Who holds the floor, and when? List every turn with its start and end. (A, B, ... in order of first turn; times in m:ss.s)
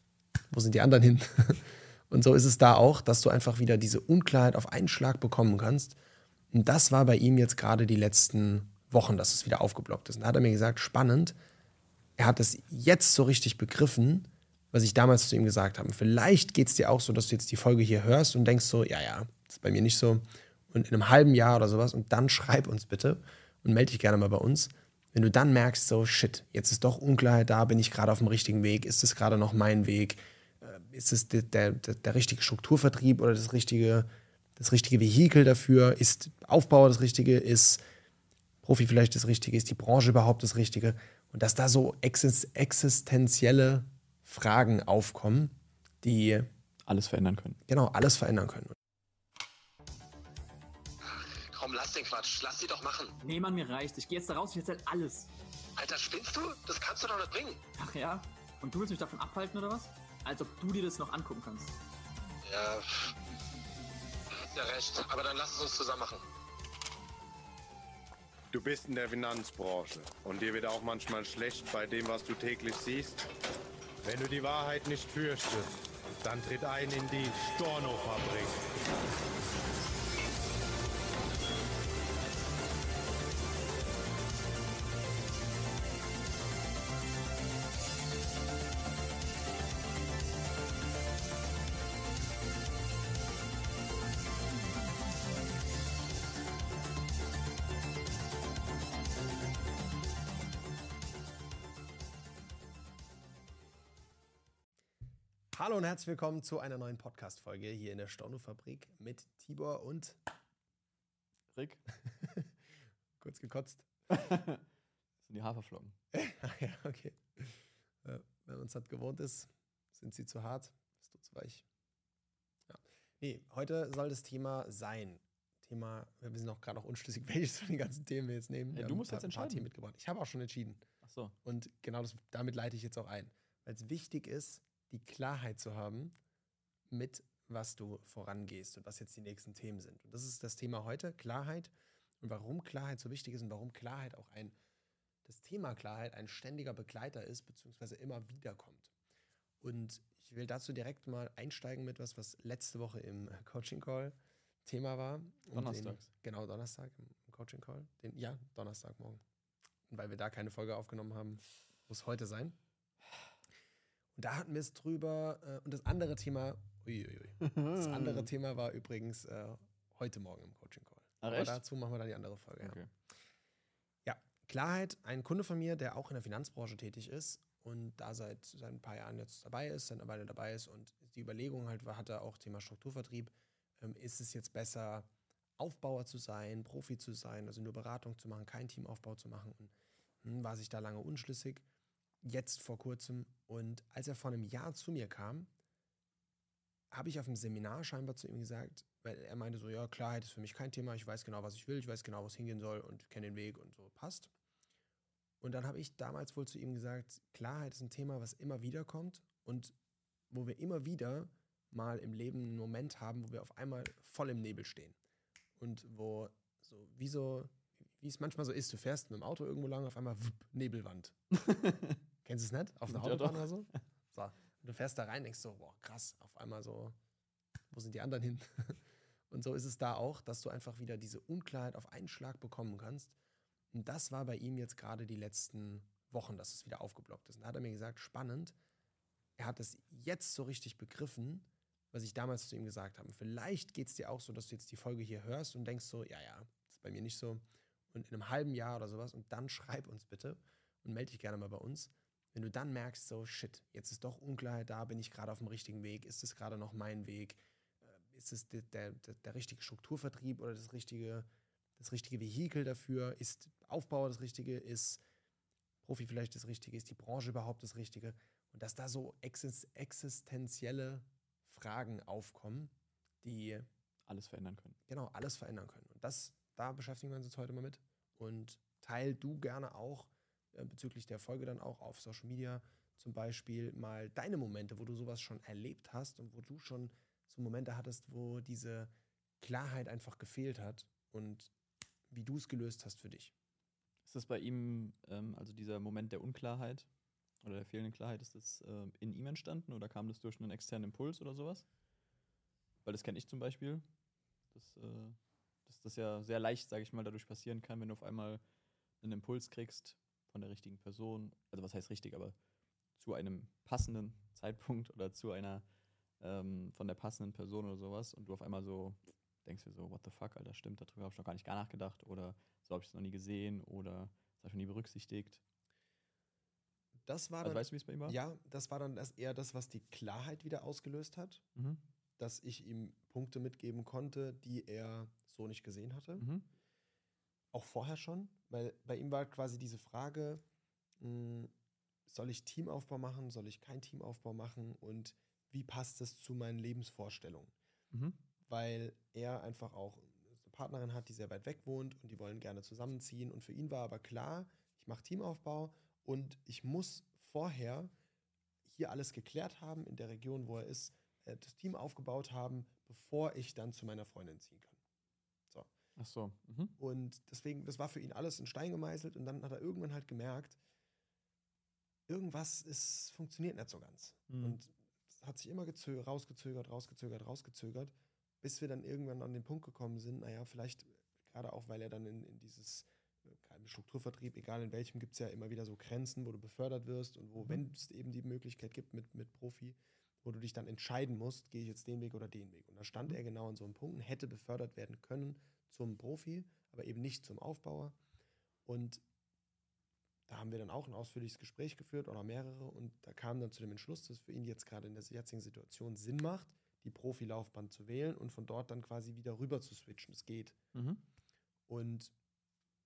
0:00.5-0:06.0 A
0:06.5-0:11.4 A
0:12.2-0:37.8 A
0:38.6-0:46.5 A
0:46.8-0:47.6 B
0:47.7-0:48.7 A
0:51.0-0:53.2 C
0:53.2-0:55.3 D
0:55.8-0:57.6 C
0:57.8-1:01.8 D
1:02.4-1:03.1 C
1:04.4-1:06.2 C
1:08.5-1:13.2 E
1:14.0-1:18.6 E
1:45.5-1:50.2 A
1:51.5-1:51.8 B
1:52.2-1:52.5 A
1:53.2-1:53.9 A
1:54.1-1:54.6 B
1:55.2-1:56.0 B
1:56.1-2:01.6 A
2:02.7-2:10.8 A
2:08.7-2:09.7 B
2:11.0-2:11.3 B
2:11.4-2:16.1 A
2:16.9-2:24.5 A
2:25.2-2:28.9 A
2:29.6-2:39.2 A
2:35.5-2:36.0 B
2:39.9-2:42.6 A
2:44.2-2:52.8 A
2:47.4-2:48.3 B
2:51.2-2:51.6 B
2:52.6-2:52.9 B
2:54.0-3:11.6 A
3:12.2-3:15.5 A
3:16.9-3:24.3 A
3:25.4-3:29.7 A
3:30.3-3:35.0 A
3:35.6-3:41.2 A
3:41.3-3:42.0 B
3:42.2-3:47.0 A
3:42.9-3:43.5 B
3:47.7-3:53.1 A
3:53.7-3:58.6 A
3:59.4-4:25.0 A
4:25.8-4:33.7 A
4:34.1-4:34.8 B
4:34.9-4:51.5 A
4:52.1-4:53.3 A
4:54.0-4:56.9 B
4:57.4-5:01.6 B
5:02.8-5:03.8 B
5:04.5-5:08.4 B
5:09.0-5:12.3 B
5:13.0-5:15.6 B
5:16.2-5:25.4 B
5:27.0-5:31.4 A
5:27.4-5:28.2 B
5:31.6-5:31.8 B
5:32.2-5:36.2 A
5:36.2-5:36.4 B
5:37.5-5:40.4 A
5:41.0-5:41.5 A
5:42.1-5:47.5 A
5:47.9-5:48.2 B
5:48.4-5:57.9 A
5:58.7-6:04.8 A
6:06.0-6:06.7 B
6:06.8-6:10.6 A
6:12.1-6:38.0 A
6:14.3-6:14.6 B
6:38.6-6:39.0 A
6:40.3-6:50.6 A
6:50.7-6:51.0 B
6:51.7-6:52.1 A